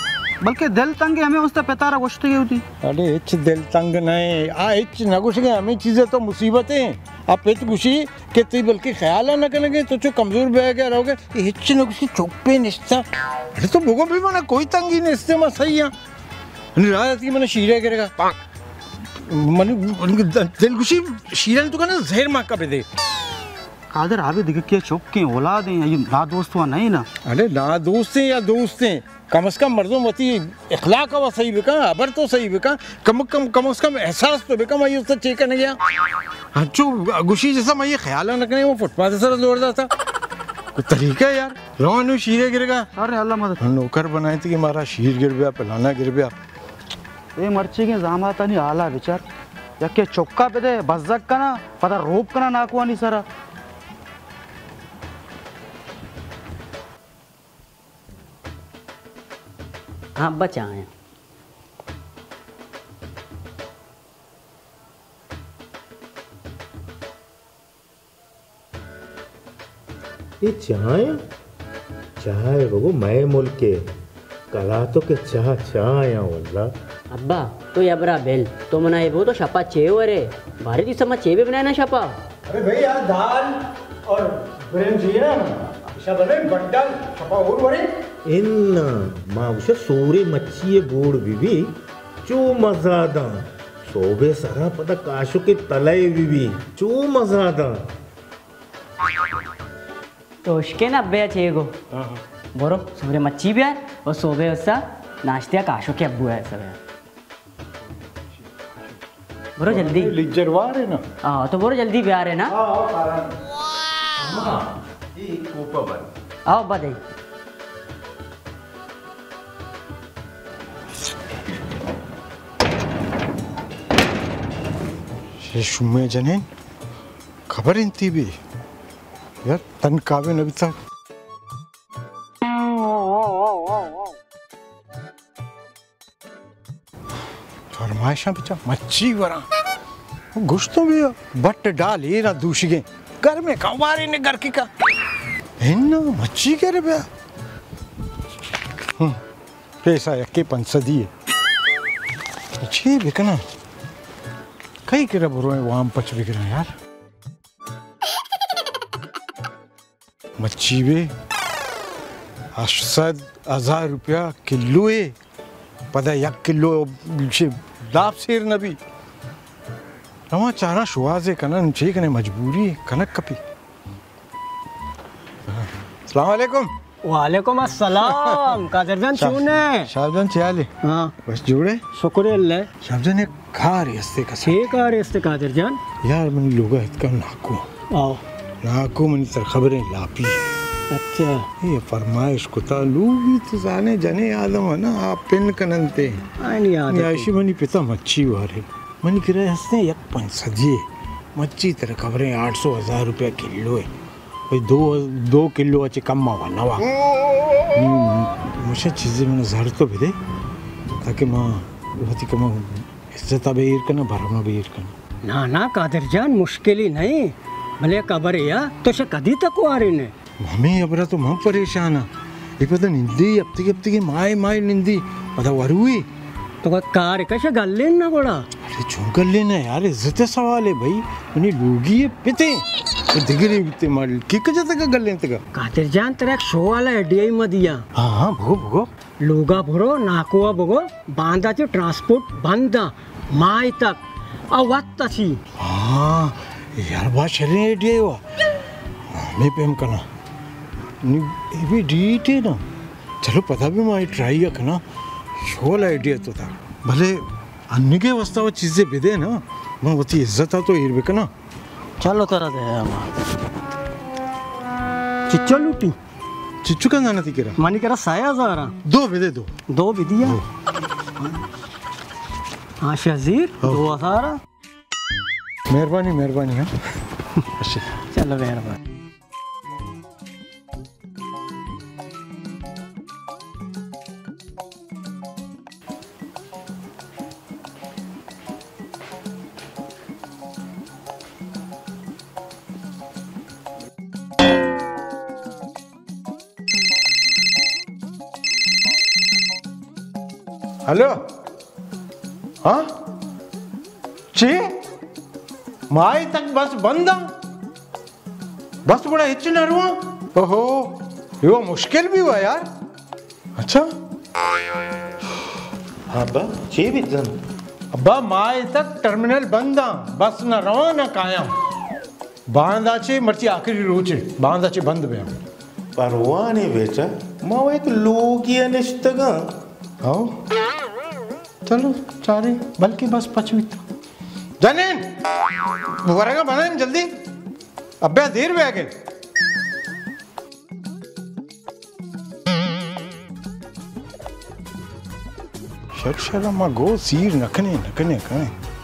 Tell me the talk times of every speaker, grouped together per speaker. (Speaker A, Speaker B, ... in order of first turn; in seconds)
Speaker A: 0.4-2.6, 23.9-27.1, 43.0-43.6, 47.4-49.2, 49.8-53.2
Speaker B: 2.8-15.9, 16.8-18.4, 19.2-22.9, 27.2-35.8, 36.5-39.9, 40.7-42.9, 43.6-46.4, 82.5-87.9, 101.9-102.2, 109.7-111.0, 112.5-113.4, 125.4-126.5, 127.5-128.4, 129.4-130.8, 137.7-139.4, 140.3-144.7, 145.6-147.1, 149.8-151.1, 152.6-153.4, 154.9-156.7, 160.4-161.1, 162.6-165.2, 165.9-168.8, 170.3-173.4, 175.5-176.7, 177.9-178.6, 179.2-180.7, 181.2-181.8, 182.8-184.6, 186.0-187.6, 188.6-190.4, 191.6-196.2, 196.9-200.8, 201.4-203.9, 204.5-206.9, 207.7-210.2, 211.0-214.9, 220.4-222.1, 222.6-226.1, 228.7-235.4, 237.9-238.9, 245.6-248.2, 249.1-250.0, 251.0-252.6, 253.2-254.8, 255.4-261.3, 266.6-267.6, 268.9-269.6, 273.6-273.9, 275.7-276.7, 277.6-278.0, 300.9-301.2, 302.6-302.9, 304.3-304.7, 305.9-307.3, 308.9-312.7, 313.6-313.9, 317.9-321.5, 322.5-325.4, 330.0-330.3, 331.7-333.8, 334.6-335.1, 336.0-337.1, 338.0-338.9, 345.9-348.5
Speaker C: 60.2-60.9, 77.1-82.2, 100.4-101.7, 102.5-106.8, 109.6-110.2, 111.2-112.5, 116.5-117.0
Speaker D: 70.4-71.2, 72.2-73.9, 74.5-76.7, 88.2-97.8, 114.2-116.1, 316.1-317.4, 326.0-329.4
Speaker E: 177.0-179.9, 180.8-181.2, 181.9-182.7, 184.4-185.9, 187.9-188.2, 190.9-191.5, 196.4-197.3, 215.2-220.1, 226.6-228.5, 235.5-237.8, 239.2-245.4, 262.0-263.1, 265.3-266.0, 267.6-268.8, 269.7-270.4, 272.8-274.4, 277.9-278.8